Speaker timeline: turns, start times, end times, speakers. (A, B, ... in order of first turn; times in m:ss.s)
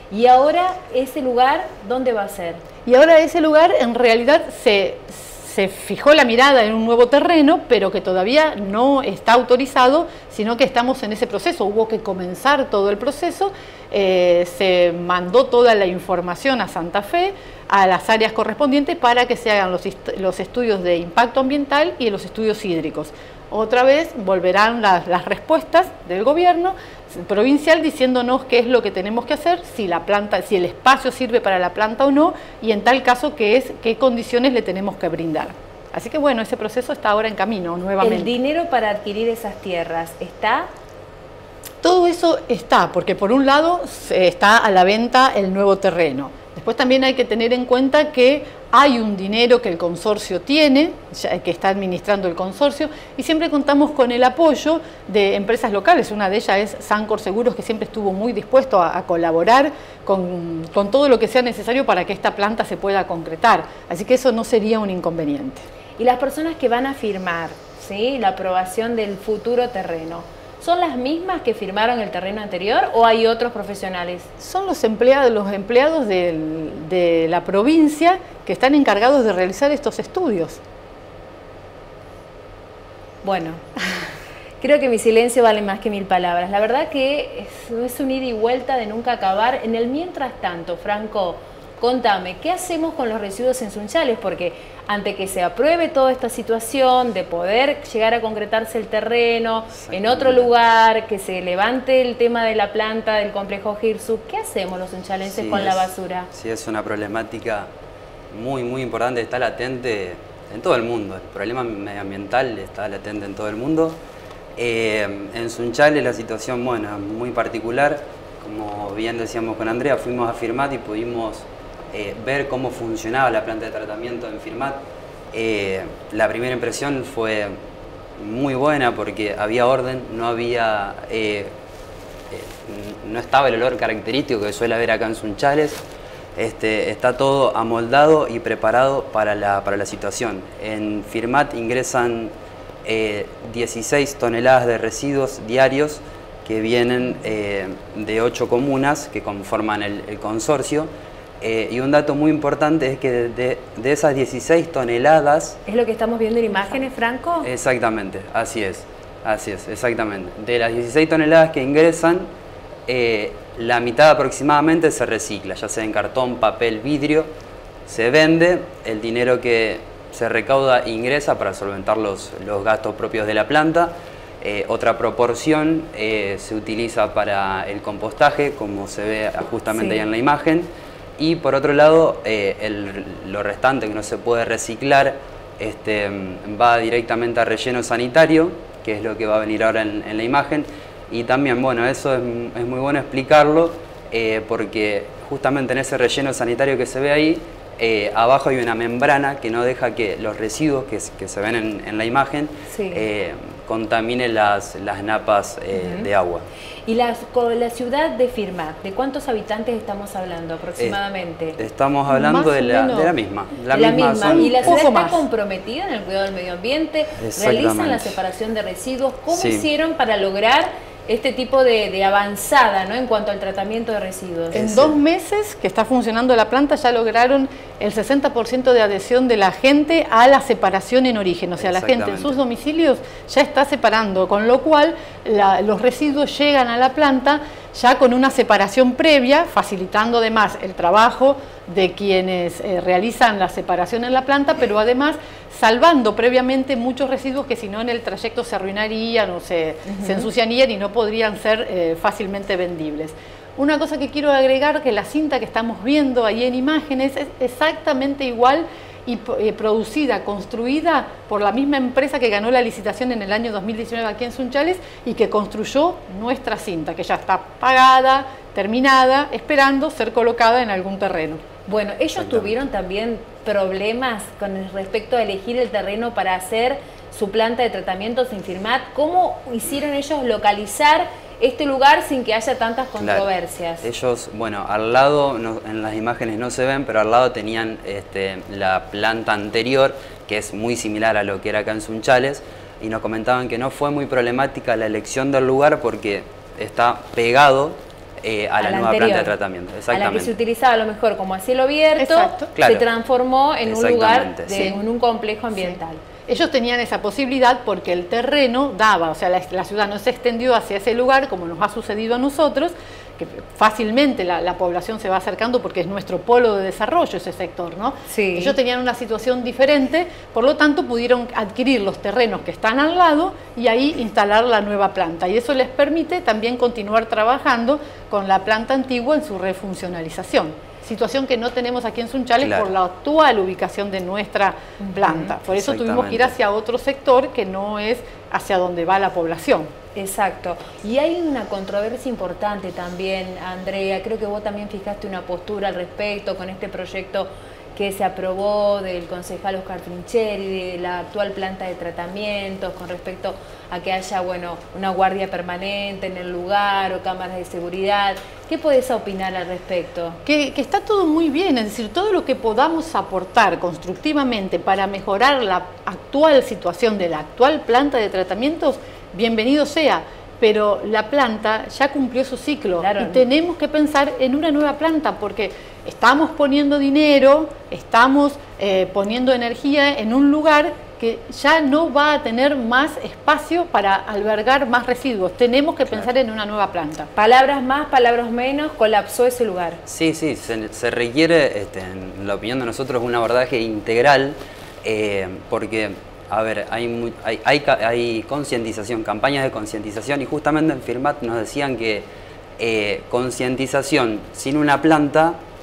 0:00.1-0:02.6 A
0:02.9-0:38.3 B
0:38.0-0:40.7 A
0:41.8-1:05.6 B
1:06.0-1:14.3 A
1:14.4-1:20.6 B
1:23.2-1:23.8 A
1:24.6-1:46.3 A
1:39.8-1:40.5 C
1:45.3-1:47.7 C
1:48.3-1:54.0 C
1:54.6-2:04.8 C
2:05.3-2:07.5 C
2:08.2-2:11.5 C
2:12.3-2:15.8 C
2:16.4-2:22.3 C
2:22.8-2:35.6 C
2:35.7-2:37.5 A
2:37.4-2:42.3 C
2:42.9-2:47.3 C
2:47.9-3:26.5 C
2:59.7-3:00.0 A
3:22.7-3:23.0 A
3:25.7-3:26.1 A
3:26.9-3:31.6 A
3:31.6-3:34.8 C
3:32.1-3:33.1 B
3:33.7-3:44.6 A
3:34.2-3:35.2 B
3:37.2-3:38.2 C
3:39.3-3:39.7 C
3:44.5-4:31.4 B
3:44.5-3:45.0 C
3:51.6-3:52.4 C
4:09.9-4:10.3 A
4:31.7-4:43.9 A
4:32.2-4:32.5 C
4:43.0-4:43.3 C
4:43.8-5:00.3 C
4:58.6-4:59.4 A
4:59.9-5:06.0 A
5:02.0-5:02.5 B
5:02.6-5:02.9 C
5:03.6-5:04.7 C
5:05.6-5:39.7 B
5:18.1-5:18.6 A
5:32.4-5:32.7 C
5:34.8-5:35.3 A
5:35.5-5:36.4 C
5:40.0-6:00.2 A
6:00.3-6:27.1 B
6:12.8-6:13.3 A
6:27.2-6:29.8 A
6:29.9-6:42.1 C
6:42.6-6:45.4 C